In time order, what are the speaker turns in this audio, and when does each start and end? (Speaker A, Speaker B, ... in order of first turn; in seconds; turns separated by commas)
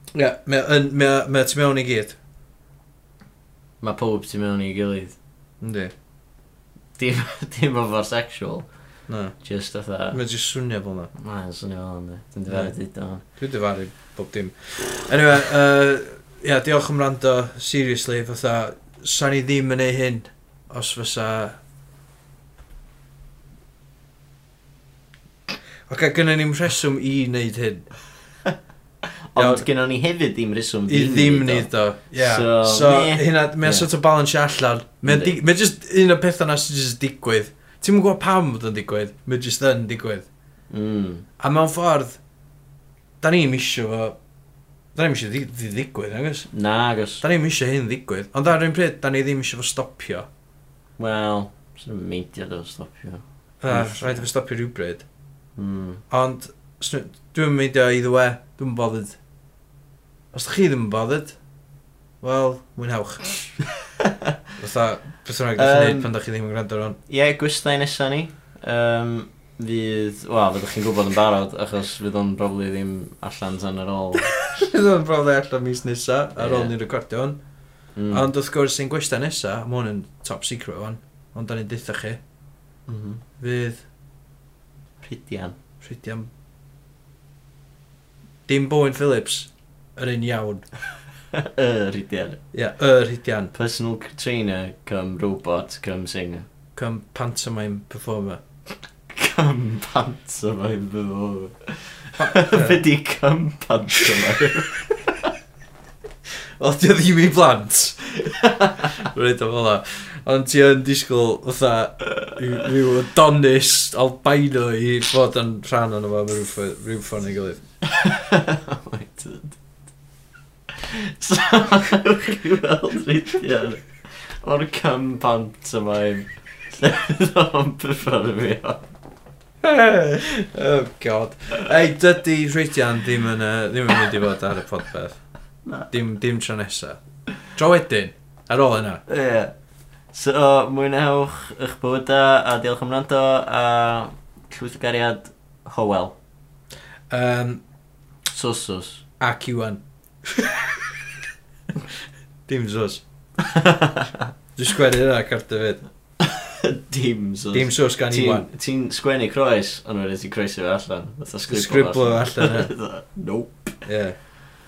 Speaker A: 0.1-2.1, Speaker B: 3.8-5.2, Speaker A: 5.6-5.9, Speaker B: 7.0-8.7, Speaker A: 9.1-9.4, Speaker B: 9.4-10.2, Speaker A: 10.1-11.1, Speaker B: 11.2-13.2, Speaker A: 12.5-21.6, Speaker A: 25.9-27.9, Speaker B: 29.3-33.9, Speaker A: 29.4-29.6, Speaker A: 30.9-40.3, Speaker B: 35.0-35.4, Speaker B: 40.7-41.2, Speaker A: 41.4-42.2, Speaker A: 43.2-44.2, Speaker A: 44.9-46.5, Speaker B: 46.5-47.2, Speaker A: 47.2-50.2, Speaker B: 51.0-54.2, Speaker A: 53.6-55.0, Speaker B: 55.5-56.0, Speaker A: 56.1-59.2, Speaker A: 60.3-61.4, Speaker A: 62.2-63.5, Speaker A: 64.6-67.0, Speaker B: 65.6-66.1, Speaker B: 67.1-74.3, Speaker A: 74.4-77.4, Speaker B: 76.3-76.7, Speaker B: 78.0-78.2, Speaker A: 78.1-82.2, Speaker B: 82.9-83.2, Speaker A: 83.4-83.8, Speaker B: 85.0-85.5, Speaker A: 85.8-86.3, Speaker A: 88.5-90.7, Speaker B: 91.4-92.4, Speaker A: 92.5-93.5, Speaker B: 93.5-96.5, Speaker A: 96.7-98.4, Speaker B: 99.1-104.8, Speaker A: 102.2-102.8, Speaker A: 106.6-117.6, Speaker B: 118.0-119.6, Speaker B: 121.0-128.9, Speaker A: 129.6-135.2, Speaker B: 135.6-135.9, Speaker A: 135.8-139.0, Speaker B: 139.1-139.5, Speaker B: 140.1-146.1, Speaker A: 147.1-147.6, Speaker B: 148.3-149.0, Speaker A: 149.2-150.8, Speaker A: 152.5-153.0, Speaker B: 153.4-154.3, Speaker A: 154.6-155.8, Speaker B: 156.2-163.8, Speaker A: 157.5-158.5, Speaker A: 161.5-162.7, Speaker A: 163.8-164.2